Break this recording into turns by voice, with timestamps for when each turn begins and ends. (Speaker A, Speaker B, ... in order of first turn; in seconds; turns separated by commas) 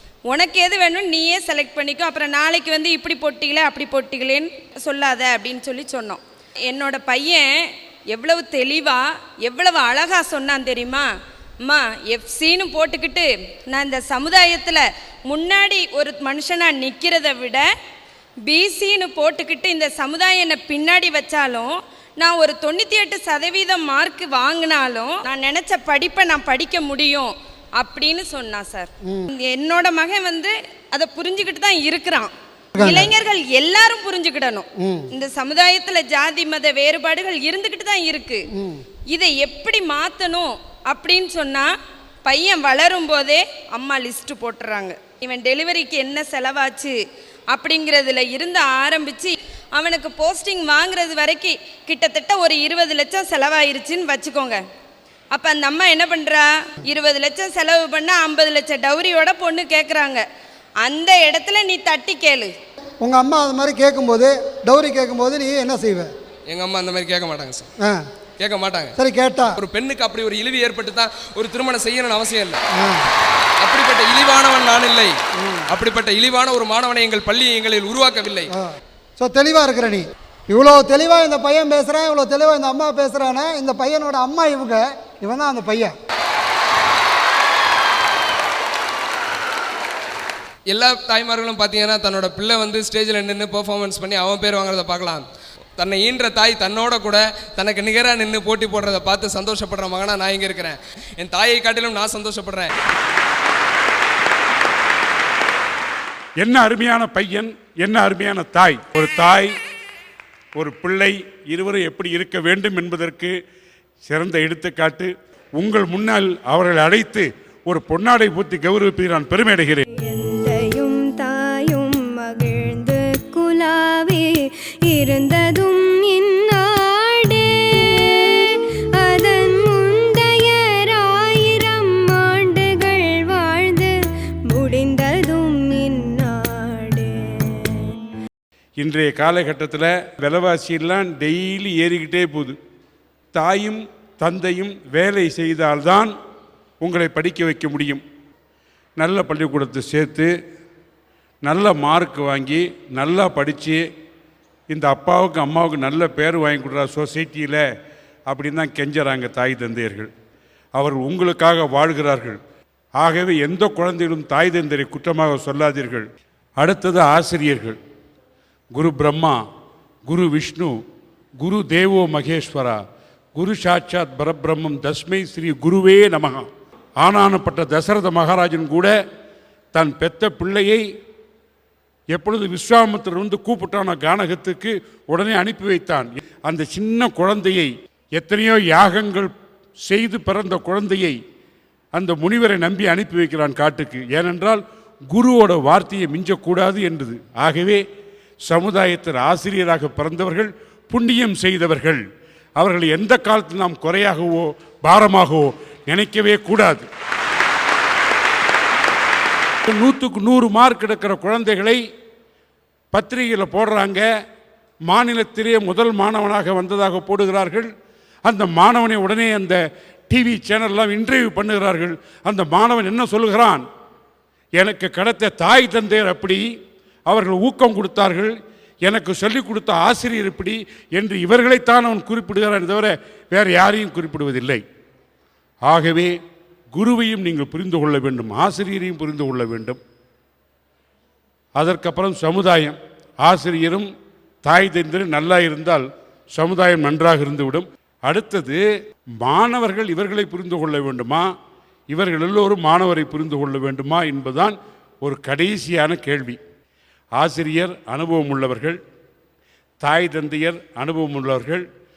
Speaker A: 0.3-7.5, Speaker A: 8.1-11.1, Speaker A: 11.7-17.7, Speaker A: 18.5-38.4, Speaker B: 32.8-33.1, Speaker B: 34.8-35.1, Speaker B: 38.6-38.8, Speaker A: 39.1-41.7, Speaker A: 42.3-47.0, Speaker A: 47.5-54.6, Speaker A: 55.3-60.2, Speaker A: 60.8-62.5, Speaker B: 63.0-66.1, Speaker C: 66.5-67.7, Speaker C: 68.4-69.0, Speaker B: 69.0-69.6, Speaker C: 69.6-72.6, Speaker B: 72.7-73.1, Speaker C: 73.6-75.2, Speaker B: 75.4-75.7, Speaker C: 75.7-78.5, Speaker B: 79.2-85.9, Speaker C: 90.7-95.2, Speaker C: 95.8-102.7, Speaker D: 106.4-109.5, Speaker D: 110.6-113.3, Speaker D: 114.1-119.8, Speaker E: 120.0-124.3, Speaker E: 124.9-133.9, Speaker E: 134.5-138.0, Speaker D: 138.8-142.6, Speaker D: 143.3-146.1, Speaker D: 146.8-148.0, Speaker D: 149.0-150.3, Speaker D: 151.4-153.8, Speaker D: 154.7-157.6, Speaker D: 158.3-160.1, Speaker D: 160.8-162.4, Speaker D: 163.0-166.1, Speaker D: 166.6-167.8, Speaker D: 168.7-169.4, Speaker D: 170.1-170.7, Speaker D: 171.4-172.8, Speaker D: 173.3-176.5, Speaker D: 177.0-178.9, Speaker D: 179.7-180.8, Speaker D: 182.1-189.3, Speaker D: 189.9-191.2, Speaker D: 191.9-197.8, Speaker D: 198.5-202.0, Speaker D: 202.6-206.9, Speaker D: 209.7-211.8, Speaker D: 212.9-214.1, Speaker D: 214.9-217.7, Speaker D: 218.2-219.6, Speaker D: 220.1-223.6, Speaker D: 224.6-226.4, Speaker D: 227.1-228.3, Speaker D: 228.9-234.6, Speaker D: 235.7-236.1, Speaker D: 236.7-239.8, Speaker D: 241.6-243.9, Speaker D: 244.4-248.6, Speaker D: 249.2-251.3, Speaker D: 251.9-256.4, Speaker D: 257.2-258.8, Speaker D: 259.8-261.6